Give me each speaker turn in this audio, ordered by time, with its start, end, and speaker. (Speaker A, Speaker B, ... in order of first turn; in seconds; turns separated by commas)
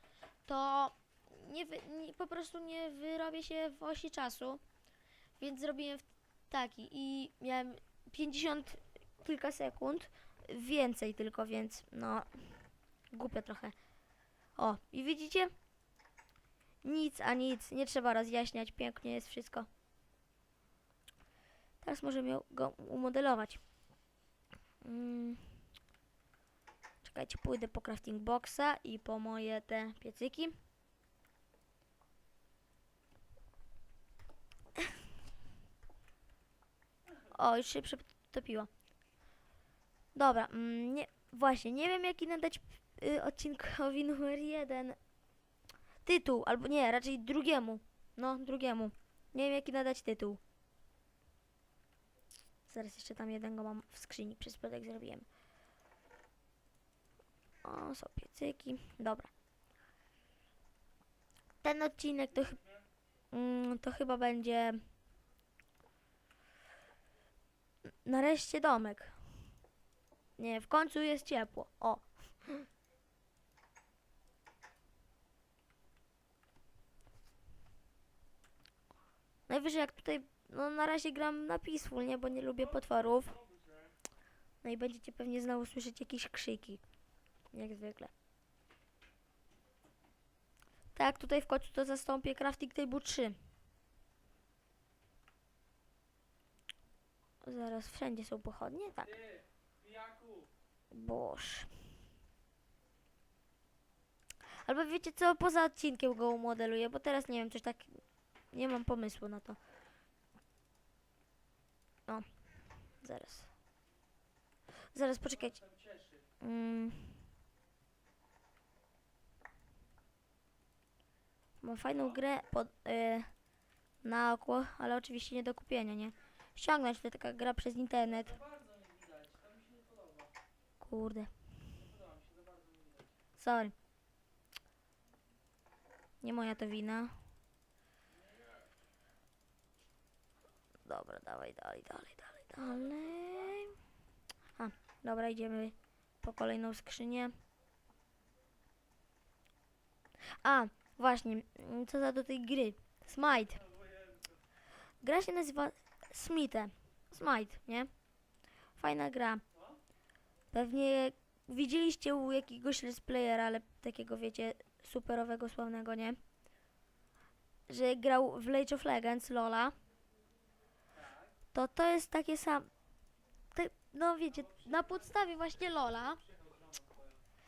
Speaker A: 0.4-4.6, Speaker A: 5.4-13.8, Speaker A: 14.6-15.5, Speaker A: 16.8-19.7, Speaker A: 21.8-23.6, Speaker A: 24.8-25.6, Speaker A: 27.0-30.6, Speaker A: 37.3-38.7, Speaker A: 40.1-45.0, Speaker A: 46.0-50.4, Speaker A: 52.7-55.2, Speaker A: 57.6-59.3, Speaker A: 61.6-62.6, Speaker B: 62.3-62.8, Speaker A: 63.3-64.8, Speaker A: 67.9-69.2, Speaker A: 70.4-72.7, Speaker A: 79.5-83.3, Speaker B: 82.5-84.0, Speaker A: 84.6-86.8, Speaker A: 87.5-88.1, Speaker A: 90.9-93.4, Speaker A: 97.4-99.1, Speaker B: 99.0-100.5, Speaker A: 100.9-101.7, Speaker A: 104.5-108.0, Speaker A: 108.5-109.6, Speaker A: 113.0-113.5, Speaker A: 114.9-115.6, Speaker B: 115.2-116.3, Speaker A: 116.4-117.2, Speaker A: 121.6-123.3, Speaker A: 124.0-128.3, Speaker B: 128.0-130.3, Speaker A: 130.8-131.3, Speaker B: 131.7-133.1, Speaker A: 133.4-133.7, Speaker A: 136.2-137.2, Speaker B: 138.1-138.7, Speaker A: 140.8-143.8, Speaker B: 142.6-143.6, Speaker A: 144.6-147.3, Speaker A: 150.3-153.6, Speaker B: 153.5-154.4, Speaker A: 155.0-157.9, Speaker A: 158.8-159.4, Speaker B: 159.5-159.8, Speaker A: 160.5-166.2, Speaker A: 167.7-169.7, Speaker B: 170.9-171.4, Speaker A: 171.5-172.7, Speaker A: 173.5-176.2, Speaker B: 174.3-177.2